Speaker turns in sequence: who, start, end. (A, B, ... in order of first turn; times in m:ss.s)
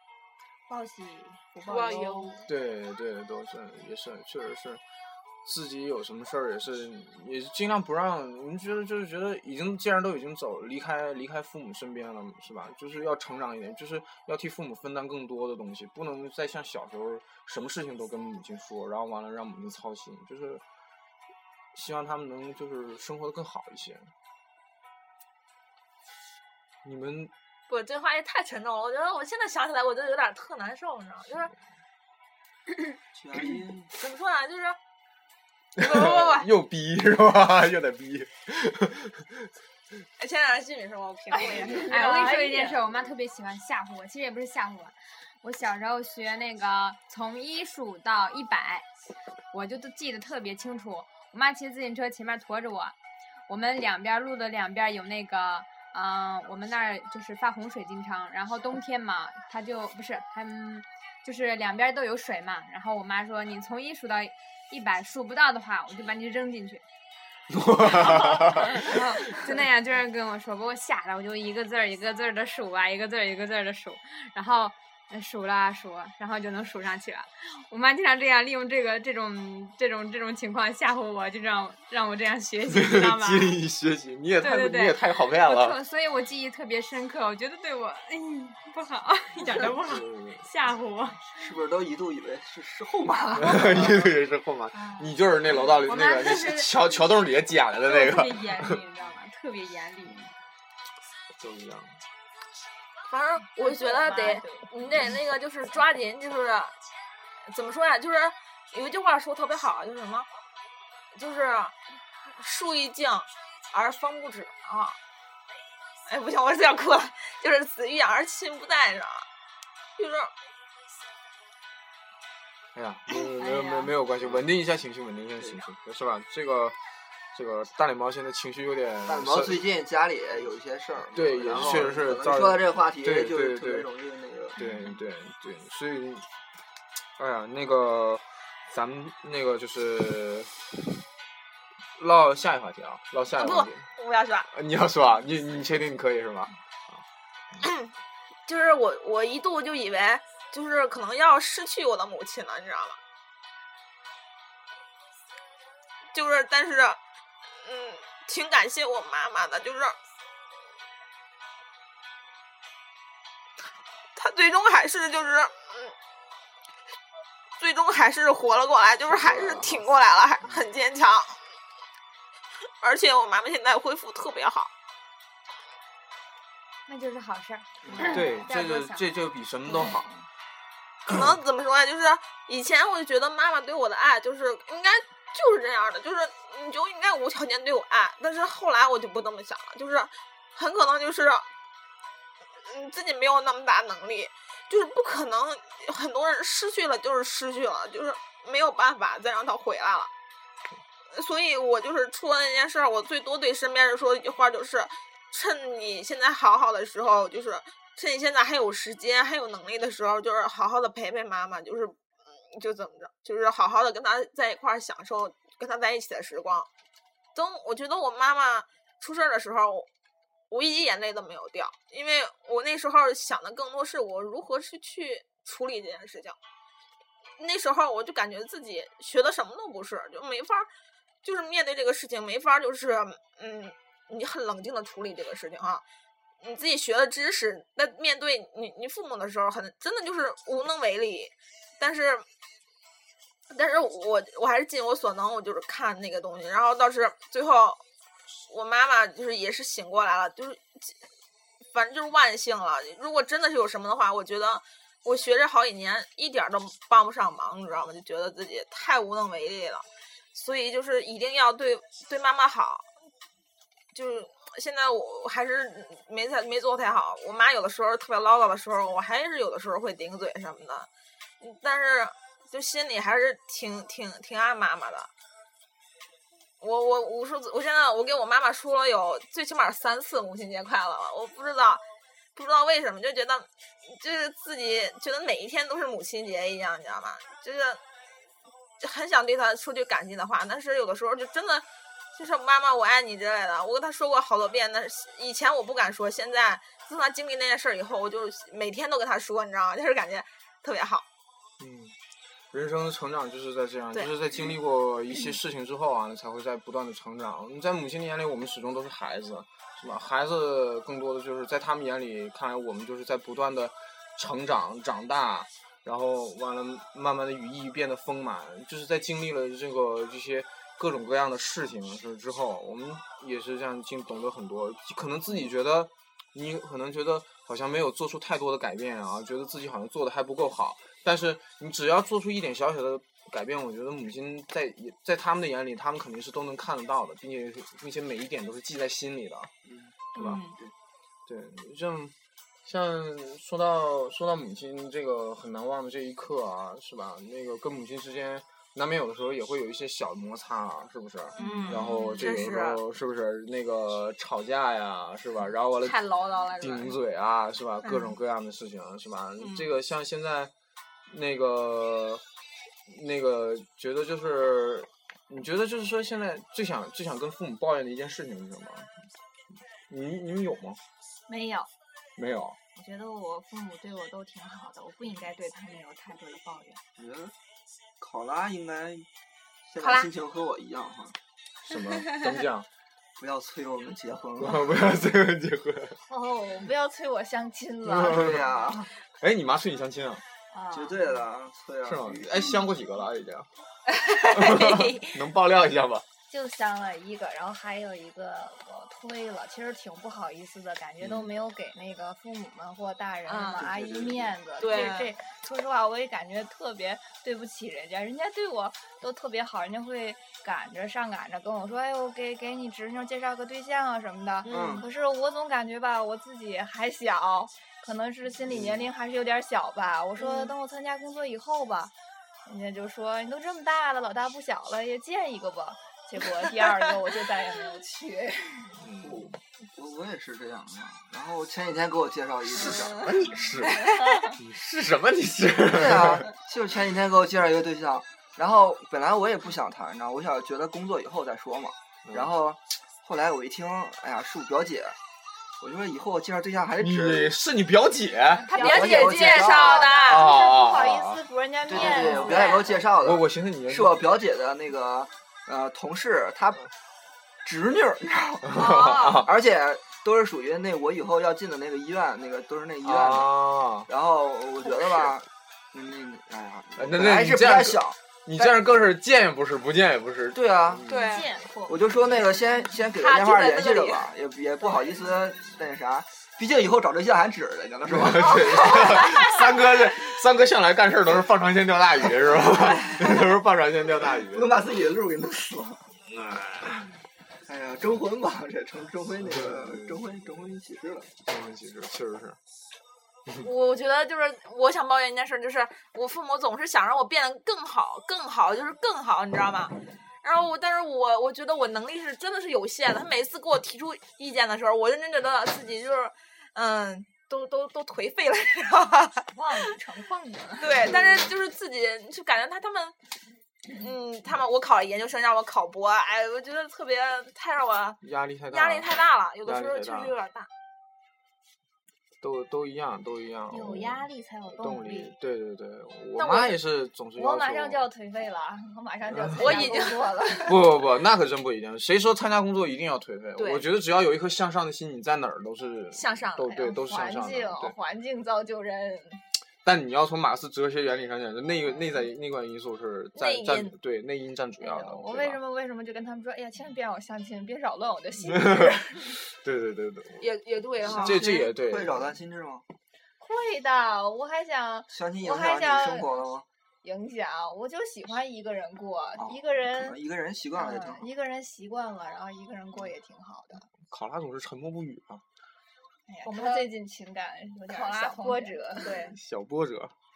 0:00.7-0:02.4 A
0:01.7-0:02.4 B
0:02.5-0:04.8 C
0:05.4-0:20.6 C
0:21.7-0:24.1 C
0:26.8-0:27.3 C
0:27.7-0:31.5 B
0:33.1-0:33.9 D
0:33.9-0:34.8 B
0:35.8-0:39.5 C
0:35.8-0:36.5 B
0:40.2-0:42.7 B
0:41.3-0:42.8 A
0:41.7-0:48.9 E
0:49.5-0:53.0 E
0:53.5-1:06.8 E
1:07.5-1:09.6 C
1:07.8-1:23.6 E
1:22.7-1:25.8 C
1:24.4-1:31.2 E
1:29.8-1:30.4 C
1:31.4-1:34.1 D
1:33.4-1:38.8 C
1:35.8-1:36.7 E
1:37.8-1:40.3 E
1:41.4-1:42.0 C
1:43.1-1:46.8 B
1:43.6-1:44.7 A
1:47.5-1:50.3 B
1:51.2-1:51.8 B
1:52.3-1:55.0 B
1:56.1-1:59.3 B
2:00.0-2:00.3 B
2:02.7-2:06.8 C
2:03.4-2:03.9 E
2:07.3-2:09.6 C
2:09.1-2:15.0 D
2:11.1-2:13.9 C
2:14.6-2:16.3 C
2:17.2-2:20.5 C
2:22.0-2:23.9 C
2:23.3-2:24.5 B
2:24.5-2:27.0 C
2:27.6-2:27.9 B
2:28.5-2:33.0 B
2:36.1-2:37.0 B
2:37.6-2:40.0 B
2:44.2-2:45.9 B
2:47.6-2:51.4 B
2:49.1-2:49.9 C
2:52.8-2:54.7 B
2:56.9-2:59.0 E
2:57.9-2:58.3 A
2:58.0-3:00.1 C
2:59.7-2:59.9 E
3:01.1-3:01.3 C
3:01.1-3:11.5 B
3:12.6-3:20.1 B
3:21.1-3:32.0 B
3:32.5-3:36.7 B
3:37.4-3:39.9 B
3:40.5-3:46.4 B
3:47.4-3:50.7 B
3:51.2-3:55.8 B
3:56.4-4:02.2 B
4:03.5-4:07.8 B
4:08.5-4:11.0 B
4:11.7-4:22.9 B
4:23.9-4:30.9 B
4:31.4-4:35.1 B
4:36.6-4:41.8 B
4:42.4-4:47.8 B
4:48.8-5:01.0 B
5:01.6-5:02.0 C
5:02.5-5:39.5 C
5:39.6-5:40.0 D
5:40.2-5:40.4 C
5:40.2-5:40.6 B
5:41.3-6:00.5 C
5:51.4-5:52.8 B
5:55.8-5:56.9 B
5:57.8-5:58.2 B
5:59.4-5:59.7 B
6:01.1-6:02.2 C
6:02.9-6:08.9 C
6:09.9-6:10.8 C
6:11.3-6:11.7 A
6:12.2-6:12.6 C
6:12.8-6:16.8 A
6:17.0-6:17.3 D
6:18.0-6:19.1 D
6:19.7-6:21.2 D
6:19.8-6:20.1 B
6:21.6-6:22.7 C
6:23.2-6:24.6 D
6:24.4-6:26.0 C
6:26.1-6:28.3 A
6:27.9-6:28.4 C
6:28.1-6:28.9 D
6:29.2-6:30.2 C
6:30.5-6:31.2 A
6:30.7-6:32.6 D
6:31.8-6:33.5 C
6:33.9-6:35.2 B
6:34.2-6:36.1 C
6:36.3-7:01.9 A
6:41.0-6:41.3 C
6:43.3-6:43.6 B
6:43.6-6:44.9 D
6:44.6-6:45.1 B
6:54.5-6:54.8 B
6:54.5-6:54.9 D
6:58.5-6:58.9 C
7:00.2-7:00.5 B
7:02.4-7:08.8 A
7:08.8-7:09.4 C
7:09.0-7:13.3 D
7:12.8-7:16.3 C
7:13.7-7:14.3 B
7:15.7-7:25.0 D
7:22.0-7:22.3 C
7:25.6-7:27.3 D
7:26.8-7:28.5 C
7:28.5-7:32.8 A
7:28.5-7:30.3 B
7:28.6-7:29.9 D
7:29.9-7:31.2 C
7:31.7-7:36.6 D
7:31.8-7:32.2 C
7:31.8-7:32.8 B
7:33.0-7:34.0 C
7:37.4-7:48.5 D
7:38.5-7:39.3 C
7:38.6-7:39.3 B
7:42.8-7:43.9 C
7:46.8-7:51.2 C
7:50.3-7:50.8 D
7:50.9-7:51.3 B
7:50.9-7:52.7 A
7:51.7-7:59.0 D
7:53.0-7:54.1 B
7:54.6-7:55.1 A
7:57.9-8:04.6 C
8:04.2-8:05.9 D
8:06.1-8:06.9 C
8:07.5-8:11.1 D
8:09.3-8:10.5 C
8:11.2-8:12.4 C
8:13.4-8:29.6 B
8:29.3-8:31.0 A
8:30.6-8:33.0 B
8:30.8-8:31.3 C
8:33.7-8:40.5 B
8:38.0-8:38.9 C
8:39.4-8:40.2 C
8:42.2-8:47.9 C
8:43.5-8:45.2 A
8:46.2-8:46.6 B
8:47.2-8:50.6 A
8:49.1-8:49.7 C
8:49.4-8:50.2 B
8:50.4-8:57.8 C
8:53.4-8:53.6 B
8:55.9-8:56.6 B
8:56.4-8:59.2 A
8:59.6-9:05.4 C
9:03.2-9:03.8 B
9:04.6-9:09.2 A
9:08.3-9:10.3 C
9:10.2-9:11.4 B
9:10.8-9:12.6 D
9:10.9-9:12.1 C
9:13.2-9:16.3 A
9:14.9-9:16.4 D
9:16.8-9:20.0 A
9:19.2-9:21.1 D
9:20.5-9:23.7 A
9:23.8-9:25.2 C
9:26.1-9:29.0 A
9:26.2-9:26.7 B
9:27.7-9:29.2 B
9:28.8-9:29.9 C